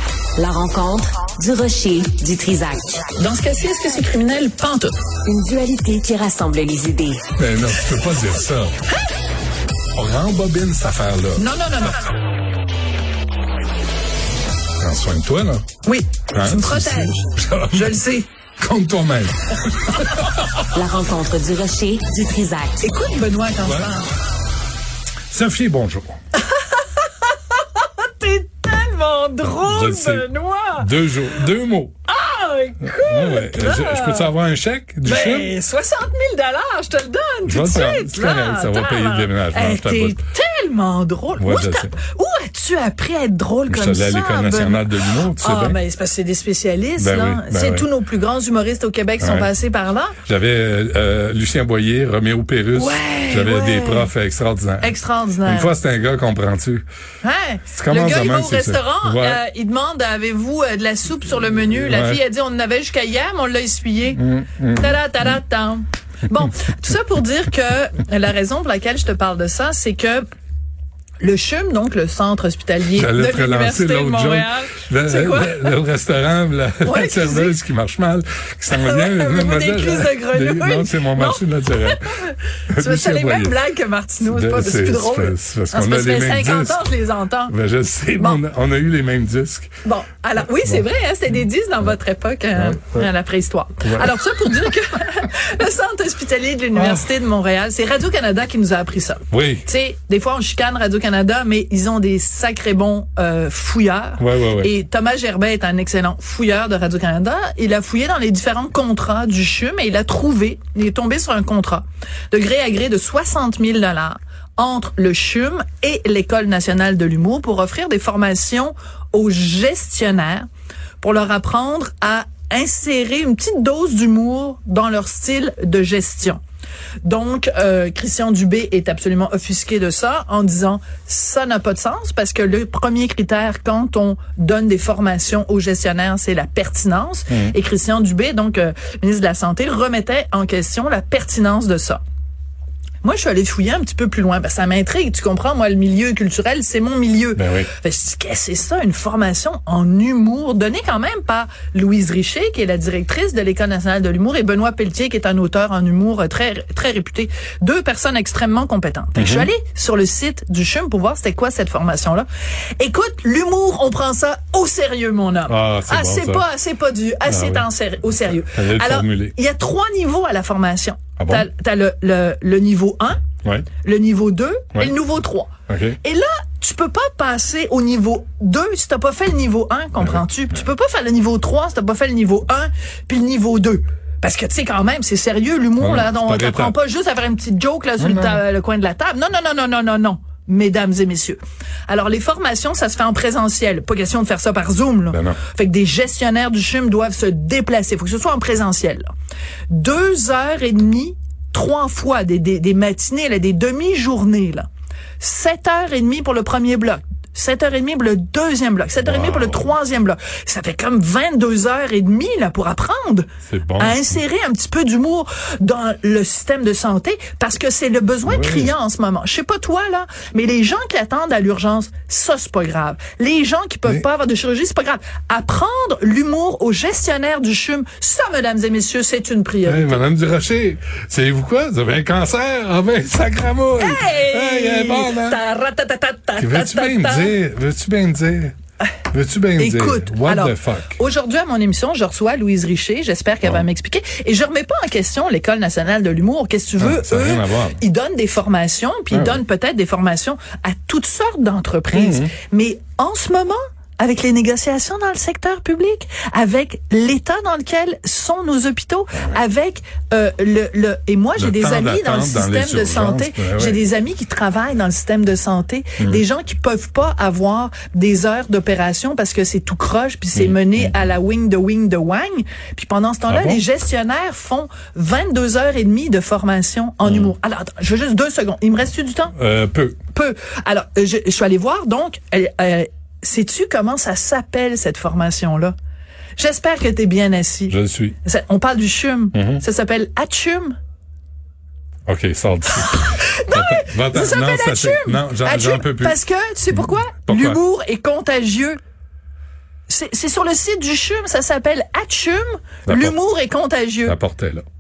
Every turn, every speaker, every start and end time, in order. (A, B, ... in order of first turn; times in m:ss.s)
0:00.4-0:03.0 A
0:03.2-0:04.9 B
0:05.3-0:07.2 A
0:07.4-0:08.7 C
0:10.0-0:11.5 C
0:11.4-0:12.0 B
0:14.8-0:15.6 C
0:15.8-0:17.2 B
0:16.3-0:18.0 C
0:17.7-0:18.3 B
0:18.6-0:20.6 C
0:20.7-0:22.9 A
0:22.8-0:24.1 B
0:23.6-0:23.9 C
0:25.3-0:26.2 C
0:26.5-0:31.5 B
0:29.4-0:32.0 C
0:32.1-0:34.3 B
0:32.8-0:35.6 C
0:35.0-0:50.2 B
0:37.5-0:40.2 C
0:41.4-0:41.9 C
0:43.7-0:45.8 C
0:47.0-0:47.9 C
0:49.2-0:49.5 C
0:50.2-0:56.8 C
0:52.7-0:54.1 B
0:54.8-0:55.7 B
0:57.2-1:10.2 B
0:57.7-0:59.4 C
1:01.8-1:02.2 C
1:04.2-1:05.0 C
1:11.2-1:15.8 B
1:12.9-1:22.0 C
1:16.8-1:17.6 B
1:18.7-1:27.6 B
1:22.7-1:23.6 C
1:24.2-1:26.9 C
1:27.5-1:29.7 C
1:29.8-2:00.5 B
1:30.6-1:30.8 C
1:32.6-1:33.1 C
1:33.8-1:34.1 C
1:36.8-1:37.1 C
1:39.3-1:39.7 C
1:44.2-1:44.7 C
2:01.0-2:06.4 B
2:07.0-2:22.0 B
2:17.3-2:17.5 C
2:23.0-2:42.3 B
2:27.4-2:27.7 C
2:39.2-2:39.5 C
2:42.8-2:53.2 B
2:45.5-2:46.5 C
2:47.3-2:49.3 C
2:51.2-2:51.5 C
2:53.8-2:55.5 B
2:55.7-2:56.0 C
2:56.0-3:19.1 B
3:00.0-3:00.2 C
3:05.8-3:06.8 C
3:08.0-3:08.4 C
3:15.1-3:15.4 C
3:19.7-3:24.7 B
3:25.2-3:50.0 B
3:29.0-3:29.7 C
3:33.5-3:34.1 C
3:38.3-3:38.7 C
3:49.6-3:55.4 C
3:53.8-3:57.4 B
3:56.4-3:58.6 C
3:59.1-4:01.0 C
3:59.6-4:39.4 B
4:06.8-4:07.8 C
4:09.1-4:09.4 C
4:11.9-4:12.3 C
4:21.4-4:23.8 C
4:26.0-4:26.2 C
4:30.4-4:30.9 C
4:33.3-4:33.6 C
4:37.1-4:37.3 C
4:39.4-4:40.0 C
4:40.1-4:45.8 B
4:46.4-4:50.8 B
4:47.7-4:48.2 C
4:49.3-4:49.6 C
4:52.1-4:56.2 C
4:52.7-4:58.8 B
4:57.2-4:57.6 C
4:59.9-5:04.2 B
5:02.9-5:03.2 C
5:04.0-5:04.6 C